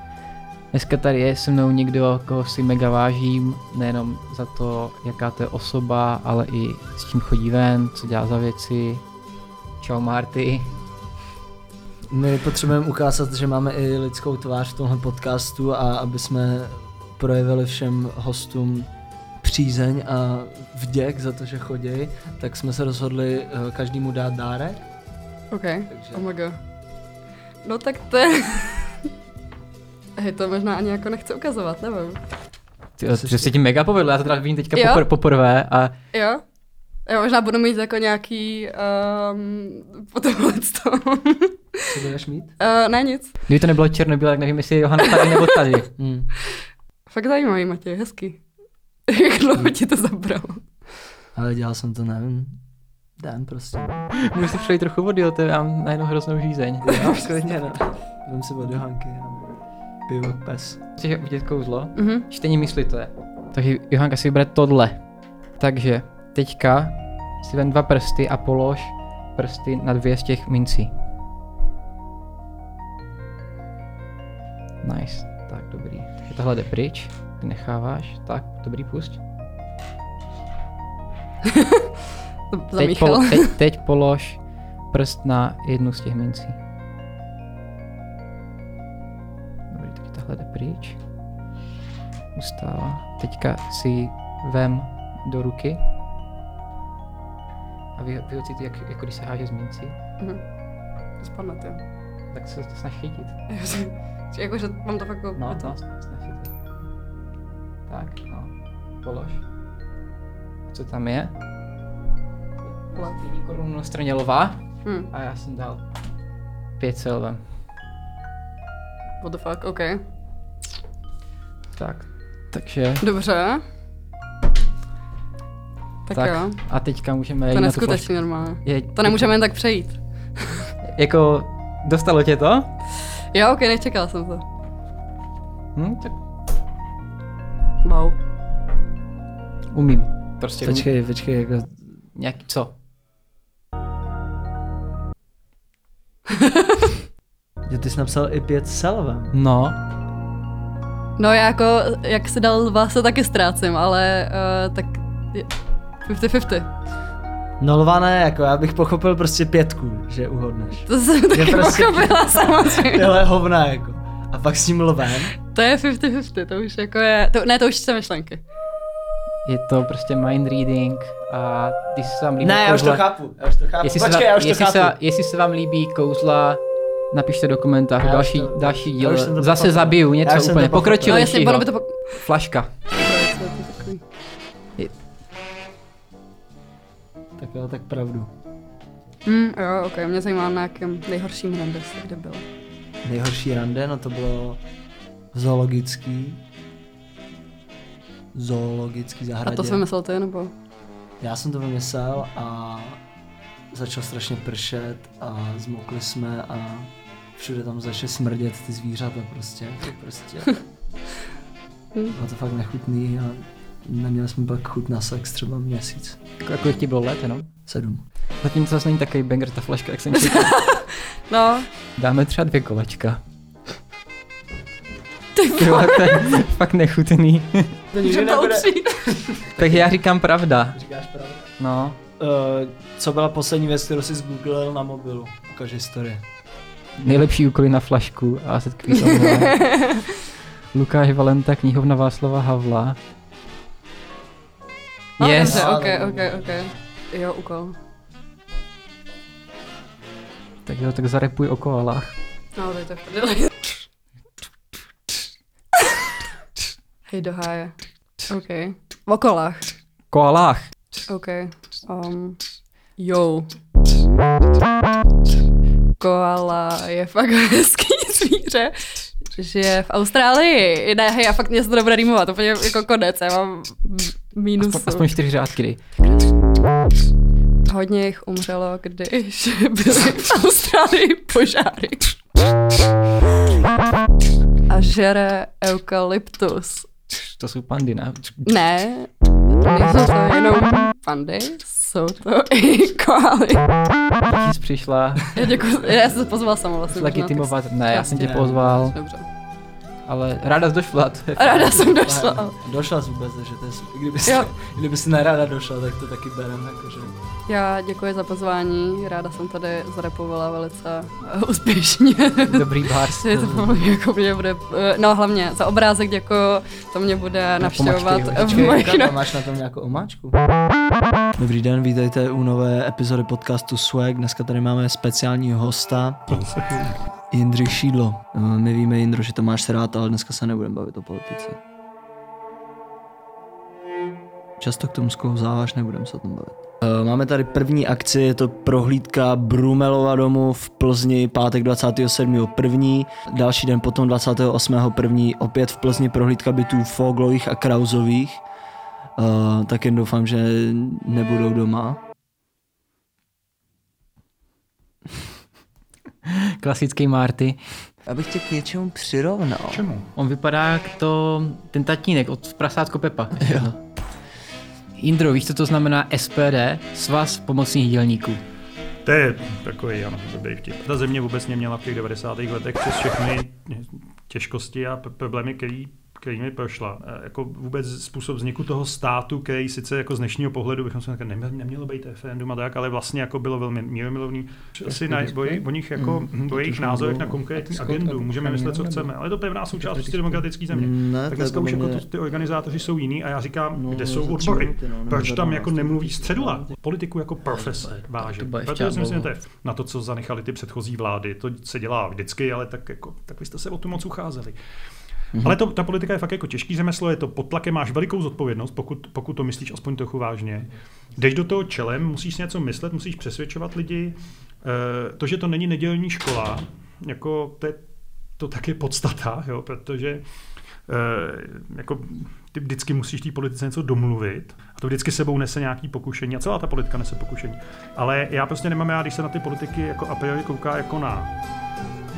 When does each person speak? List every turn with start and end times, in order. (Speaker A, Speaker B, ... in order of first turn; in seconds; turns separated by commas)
Speaker A: 0.7-9.0, Speaker A: 9.8-10.7, Speaker B: 12.1-18.9, Speaker B: 19.4-24.8, Speaker C: 25.5-26.6, Speaker B: 25.9-26.2, Speaker C: 27.6-29.1, Speaker C: 30.1-32.2, Speaker A: 33.0-35.9, Speaker B: 33.1-33.5, Speaker C: 34.7-35.0, Speaker C: 36.1-36.4, Speaker C: 37.0-41.8, Speaker B: 41.9-42.5, Speaker C: 42.6-43.4, Speaker A: 43.5-45.9, Speaker C: 45.1-45.4, Speaker B: 46.0-46.3, Speaker C: 47.1-48.4, Speaker C: 49.1-51.0, Speaker B: 51.3-52.6, Speaker B: 53.2-54.2, Speaker A: 54.3-56.9, Speaker B: 56.8-59.5, Speaker C: 56.9-57.3, Speaker B: 60.0-60.8, Speaker A: 61.0-70.9, Speaker C: 62.0-62.2, Speaker A: 74.8-79.2, Speaker C: 82.5-83.5, Speaker A: 82.8-86.6, Speaker A: 89.7-91.0, Speaker A: 92.3-95.8, Speaker A: 97.9-100.0, Speaker C: 101.2-101.8, Speaker A: 102.3-103.4, Speaker C: 103.5-105.7, Speaker A: 105.3-106.5, Speaker A: 107.9-109.4, Speaker A: 110.7-111.3, Speaker A: 112.9-115.8, Speaker C: 114.8-115.1, Speaker A: 116.8-117.4, Speaker C: 119.2-120.0, Speaker A: 121.8-123.0, Speaker C: 123.0-123.6, Speaker C: 126.0-126.8, Speaker A: 126.1-129.3, Speaker C: 127.5-130.5, Speaker A: 130.9-132.7, Speaker C: 133.3-134.4, Speaker A: 135.7-136.2, Speaker C: 137.8-138.2, Speaker A: 139.7-140.9, Speaker B: 140.6-141.8, Speaker A: 142.1-142.7, Speaker C: 146.4-146.8, Speaker B: 147.7-149.3, Speaker A: 149.3-149.8, Speaker C: 151.2-156.7, Speaker B: 157.6-165.4, Speaker C: 160.8-163.1, Speaker C: 165.5-168.4, Speaker A: 169.4-173.1, Speaker B: 172.4-174.9, Speaker A: 173.8-182.7, Speaker B: 178.0-181.2, Speaker C: 181.1-182.2, Speaker C: 182.9-184.0, Speaker B: 187.4-188.3, Speaker C: 189.2-192.4, Speaker B: 193.0-194.6, Speaker B: 195.3-196.4, Speaker B: 198.3-199.8, Speaker C: 199.4-200.5, Speaker B: 201.2-203.0, Speaker B: 203.7-210.6, Speaker B: 212.1-216.2, Speaker A: 216.4-217.5, Speaker B: 217.7-218.0, Speaker A: 218.4-220.6, Speaker C: 220.2-221.7, Speaker A: 222.0-223.2, Speaker C: 225.3-226.2, Speaker A: 225.6-227.7, Speaker B: 227.9-229.9, Speaker C: 228.0-229.1, Speaker A: 229.6-230.8, Speaker B: 230.7-231.5, Speaker A: 231.6-232.0, Speaker B: 232.2-236.2, Speaker A: 237.0-239.7, Speaker C: 238.9-240.1, Speaker A: 240.7-243.0, Speaker C: 245.2-247.8, Speaker A: 245.2-245.6, Speaker B: 245.4-246.7, Speaker A: 250.7-252.1, Speaker C: 252.5-253.7, Speaker C: 257.1-257.7, Speaker C: 258.3-259.7, Speaker A: 260.1-260.7, Speaker C: 261.1-262.4, Speaker C: 263.0-263.5, Speaker C: 266.0-275.1, Speaker A: 274.6-275.8, Speaker C: 277.7-282.2, Speaker C: 284.7-286.9, Speaker A: 287.1-288.5, Speaker C: 288.4-293.8, Speaker A: 294.2-295.3, Speaker C: 295.3-299.2, Speaker A: 296.9-298.9, Speaker B: 298.1-298.8, Speaker A: 300.0-301.9, Speaker C: 301.4-302.5, Speaker B: 301.8-307.1, Speaker C: 307.5-319.2, Speaker A: 312.4-313.5, Speaker B: 313.3-313.7, Speaker A: 317.6-318.8, Speaker B: 318.4-320.4, Speaker B: 321.4-326.3, Speaker D: 326.3-326.9, Speaker B: 327.3-331.6, Speaker B: 334.6-348.4, Speaker B: 349.2-352.0, Speaker A: 356.2-357.6, Speaker B: 358.0-359.8, Speaker D: 359.7-360.1, Speaker A: 360.1-363.7, Speaker B: 363.4-363.7, Speaker A: 364.9-368.4, Speaker D: 369.0-404.6, Speaker A: 384.9-385.6, Speaker B: 385.5-387.4, Speaker A: 387.5-389.1, Speaker A: 389.7-390.4, Speaker B: 390.7-392.0, Speaker B: 393.7-396.8, Speaker A: 398.1-399.3, Speaker D: 405.4-420.2, Speaker D: 420.9-431.3